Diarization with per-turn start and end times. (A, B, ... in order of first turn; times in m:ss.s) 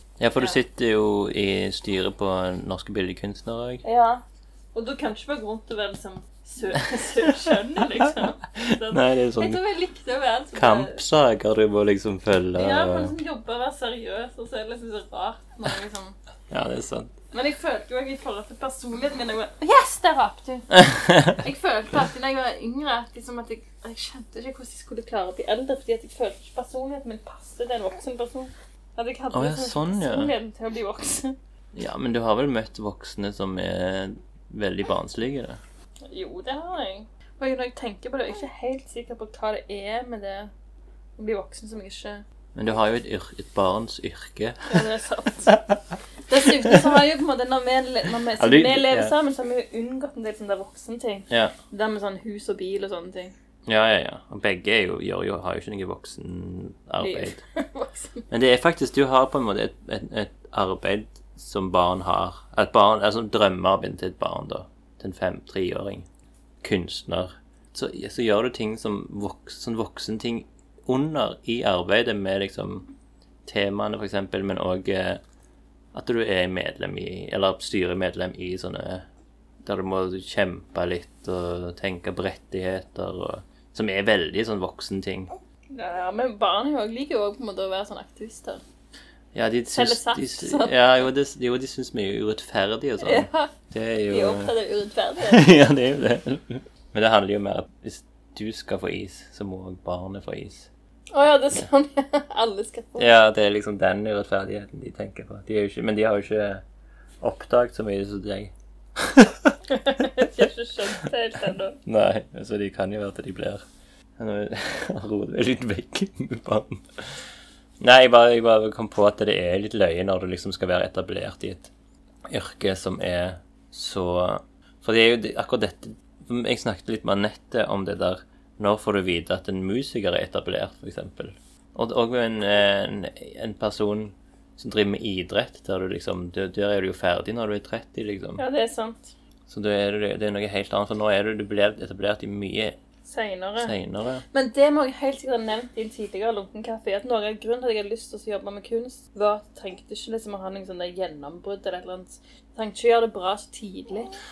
0:00.2-0:03.8 A
0:03.8-0:11.0 B
0:08.5-0:09.6 A
0:10.6-0:13.1 A
0:12.6-0:16.2 B
0:16.5-0:17.1 A
0:17.3-0:31.4 B
0:20.8-0:21.4 A
0:29.3-0:30.3 A
0:31.7-0:35.6 A
0:36.1-0:40.5 B
0:41.2-0:42.2 B
0:42.6-0:44.9 A
0:44.7-0:45.6 B
0:45.5-0:45.8 A
0:46.3-0:53.3 B
0:48.4-0:49.1 A
0:51.3-0:51.6 A
0:53.7-0:57.4 A
0:57.0-0:58.3 B
0:58.3-1:06.1 A
1:06.6-1:12.9 A
1:13.4-1:15.2 A
1:15.9-1:19.1 A
1:19.6-1:25.3 A
1:25.7-1:28.6 B
1:29.3-1:34.5 A
1:29.7-1:30.8 B
1:33.0-1:33.6 B
1:34.1-1:35.5 B
1:35.2-1:40.7 A
1:41.1-1:43.1 B
1:43.0-1:46.6 A
1:47.2-1:49.6 A
1:49.7-1:51.8 B
1:51.8-1:53.6 A
1:54.2-1:56.8 A
1:57.8-2:01.7 A
2:02.3-2:18.4 A
2:18.4-2:19.1 B
2:19.5-2:22.8 A
2:23.0-2:23.8 B
2:23.6-2:24.2 A
2:24.3-2:34.1 B